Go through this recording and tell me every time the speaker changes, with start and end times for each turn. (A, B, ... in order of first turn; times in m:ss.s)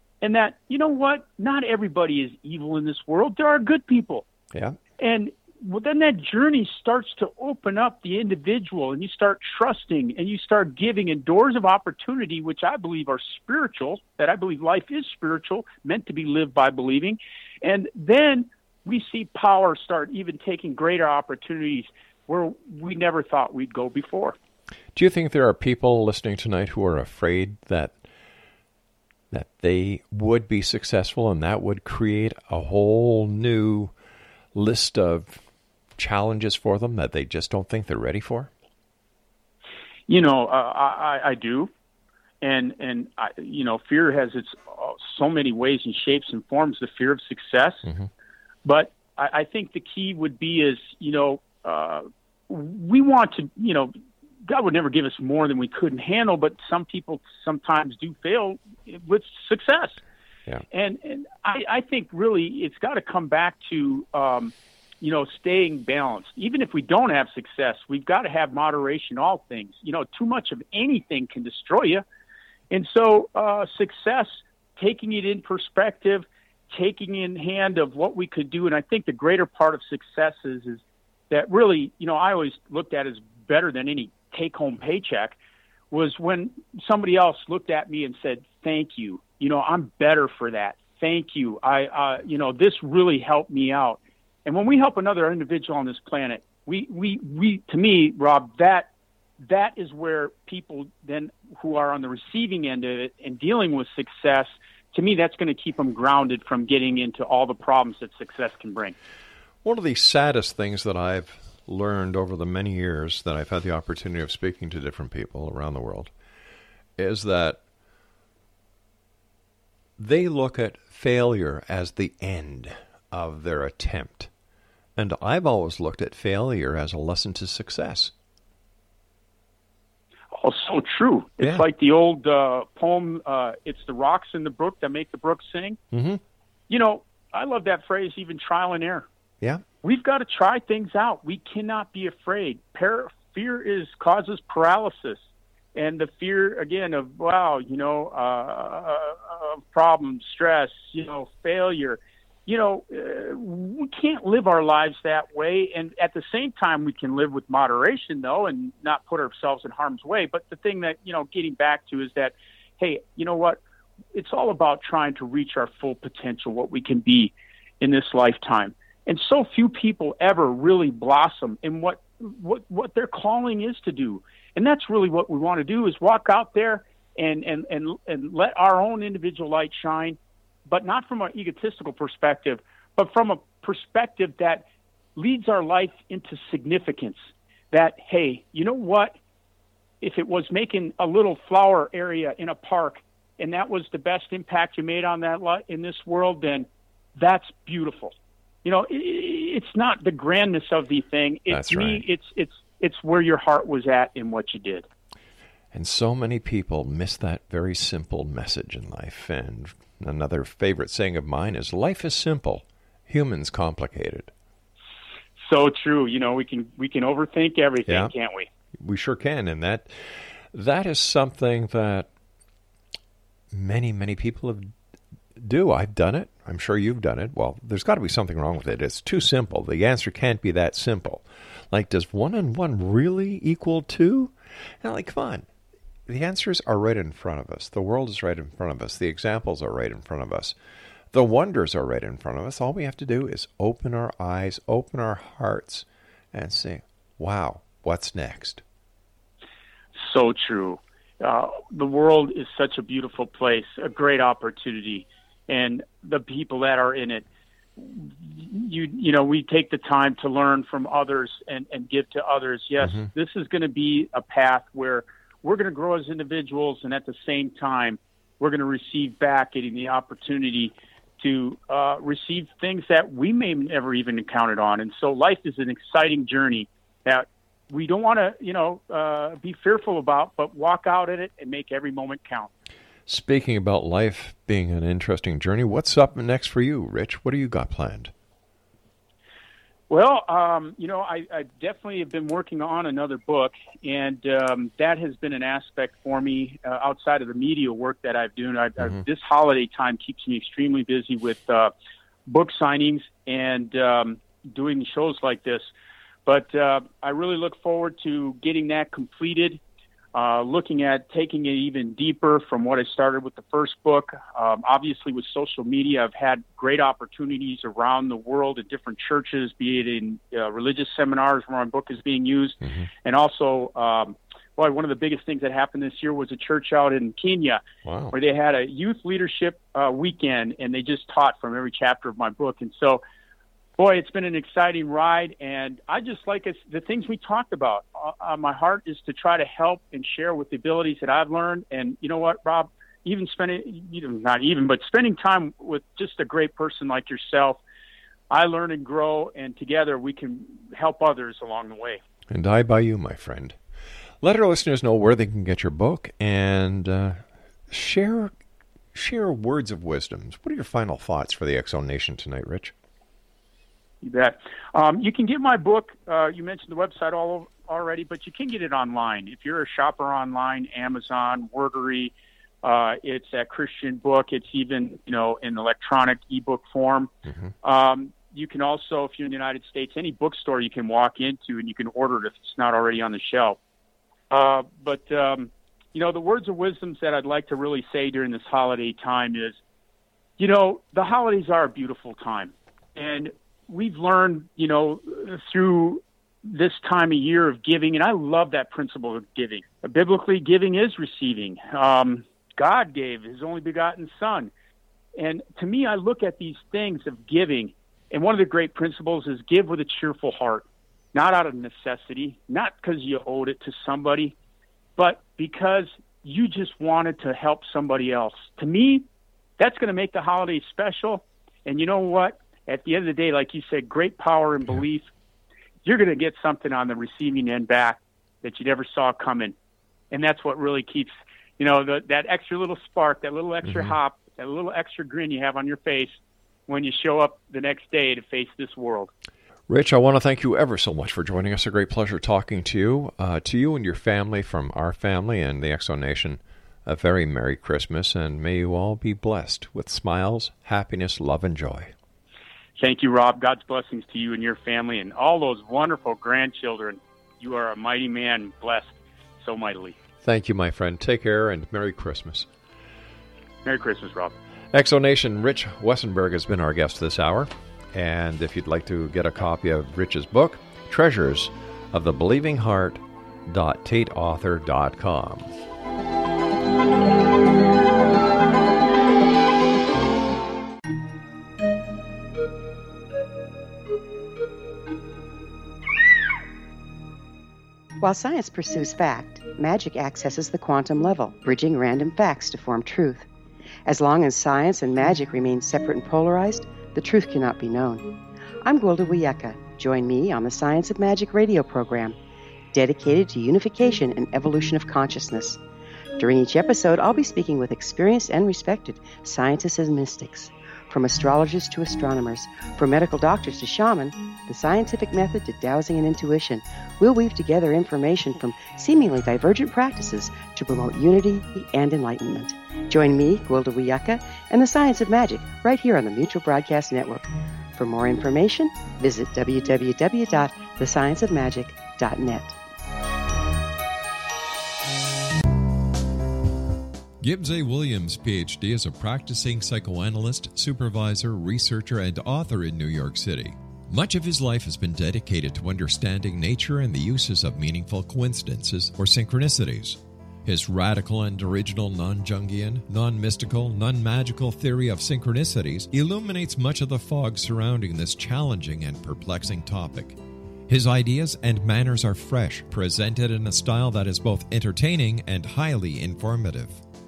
0:00.2-0:04.3 A
0:04.5-0:04.8 B
0:05.0-0:24.4 A
0:24.9-0:28.0 B
0:29.3-0:33.9 B
0:34.5-0:35.4 B
0:36.0-0:38.5 B
0:40.1-0:41.7 A
0:42.4-0:47.9 A
0:48.6-0:53.9 A
0:54.5-1:00.0 A
1:00.7-1:12.0 A
1:12.7-1:25.4 A
1:25.9-1:38.9 A
1:39.4-1:49.0 A
1:49.6-1:56.1 B
1:57.0-1:57.6 B
2:00.0-2:04.3 B
2:05.0-2:08.1 B
2:10.4-2:15.8 A
2:11.4-2:11.7 B
2:15.9-2:16.2 B
2:16.7-2:19.1 A
2:19.8-2:25.2 A
2:25.8-2:43.6 A
2:44.1-3:09.2 A
3:10.0-3:24.9 A
3:21.5-3:22.0 B
3:25.7-3:34.3 B
3:35.4-3:38.5 A
3:37.9-3:38.1 B
3:38.8-3:42.1 B
3:43.5-3:44.7 B
3:45.4-3:55.5 B
3:56.1-4:00.6 B
4:01.1-4:08.6 B
4:10.0-4:17.2 A
4:17.8-4:42.5 A
4:22.8-4:23.1 B
4:43.1-4:48.1 B
4:49.9-5:01.7 A
5:02.3-5:05.7 A
5:06.3-5:09.6 A
5:10.1-5:27.6 A
5:27.8-5:28.2 B
5:28.1-5:33.0 A
5:33.8-5:47.6 A
5:48.3-5:52.0 A
5:52.3-5:53.6 B
5:54.2-5:58.3 B
5:58.9-6:02.7 B
6:04.0-6:23.6 A
6:17.3-6:17.5 B
6:24.3-6:29.6 A
6:30.4-6:44.5 A
6:45.2-6:54.4 A
6:55.0-6:59.1 A
6:59.6-7:05.1 A
7:05.8-7:09.6 A
7:10.1-7:19.1 A
7:13.6-7:14.0 B
7:19.7-7:31.9 B
7:32.8-7:40.0 A
7:40.2-7:42.5 B
7:43.6-7:44.4 A
7:44.7-7:55.6 B
8:08.0-8:13.3 C
8:13.9-8:18.1 C
8:18.6-8:22.2 C
8:22.7-8:25.6 C
8:26.2-8:52.6 C
8:57.2-9:26.8 B